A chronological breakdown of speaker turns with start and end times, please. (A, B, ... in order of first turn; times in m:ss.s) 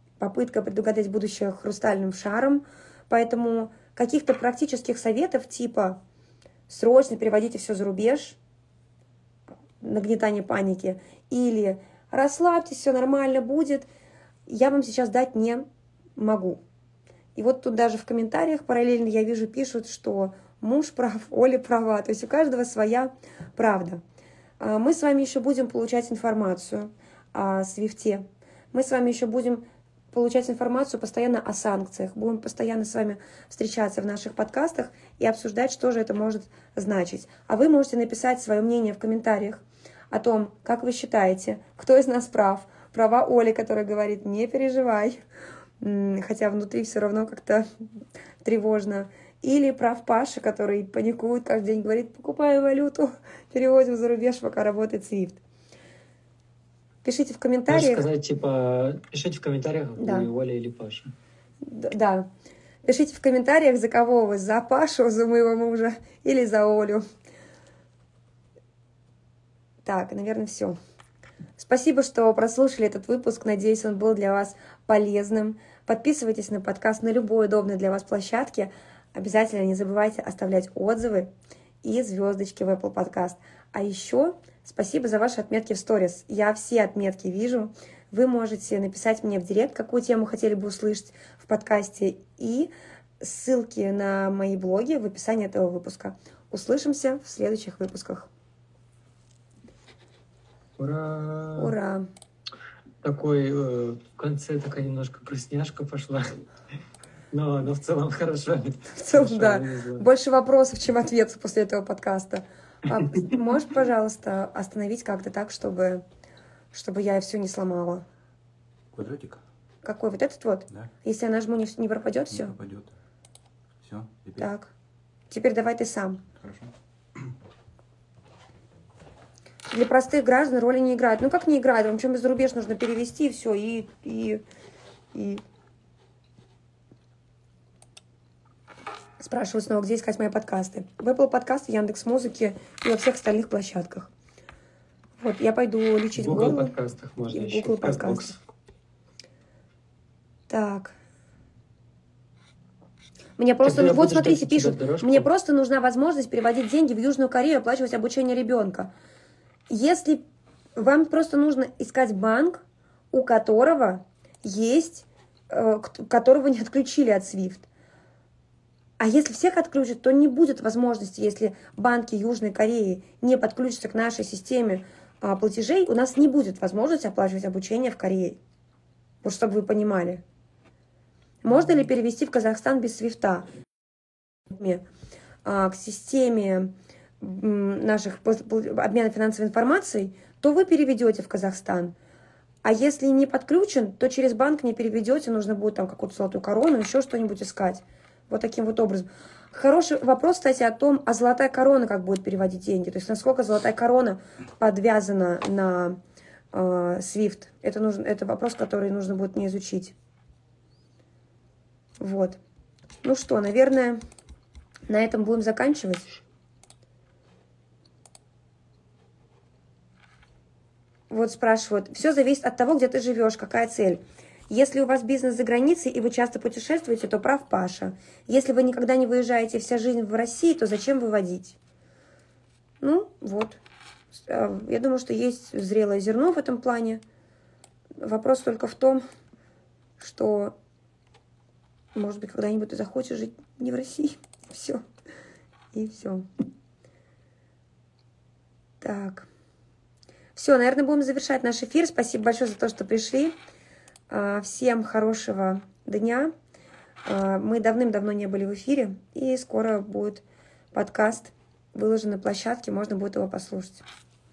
0:00.2-0:06.0 A
0:06.7-0:08.4 A
0:09.8-0:13.9 A
0:14.5-0:15.6 A
0:16.2-0:16.6 A
0:17.4-0:24.0 A
0:24.6-0:45.2 A
0:45.8-0:47.6 A
0:48.4-0:55.4 A
0:57.0-0:58.1 A
0:57.7-1:01.1 B
1:00.0-1:00.3 A
1:01.6-1:02.3 A
1:02.8-1:07.0 A
1:09.8-1:10.8 A
1:11.6-1:21.3 A
1:21.8-1:38.3 A
1:40.8-1:41.7 B
1:41.6-1:42.0 A
1:43.0-1:46.4 B
1:47.3-1:50.1 B
1:49.0-1:56.0 A
1:56.7-1:58.0 A
1:58.9-1:59.4 C
1:59.8-2:02.5 A
2:02.3-2:02.9 C
2:03.8-2:04.5 C
2:04.4-2:04.7 A
2:05.3-2:06.2 A
2:06.4-2:07.3 C
2:09.7-2:14.4 A
2:15.1-2:15.4 A
2:19.2-2:24.1 A
2:25.2-2:26.7 A
2:26.2-2:28.4 B
2:27.3-2:28.3 A
2:30.5-2:30.9 A
2:33.4-2:38.9 A
2:33.6-2:35.3 B
2:39.7-2:40.2 A
2:40.8-2:42.6 A
2:43.1-2:47.7 A
2:49.0-2:58.4 A
2:59.2-3:00.2 A
3:01.4-3:03.5 A
3:04.5-3:04.8 A
3:05.4-3:11.9 A
3:12.6-3:26.0 A
3:26.5-3:29.9 A
3:32.0-3:32.4 A
3:33.0-3:34.0 A
3:34.9-3:36.1 A
3:41.1-3:51.6 A
3:52.8-3:53.6 A
3:54.1-3:57.0 A
3:58.0-3:59.0 A
4:00.0-4:00.5 A
4:01.9-4:04.8 A
4:05.7-4:06.3 A
4:08.8-4:09.3 A
4:10.3-4:13.3 A
4:14.1-4:16.3 A
4:17.0-4:20.2 A
4:20.7-4:23.8 A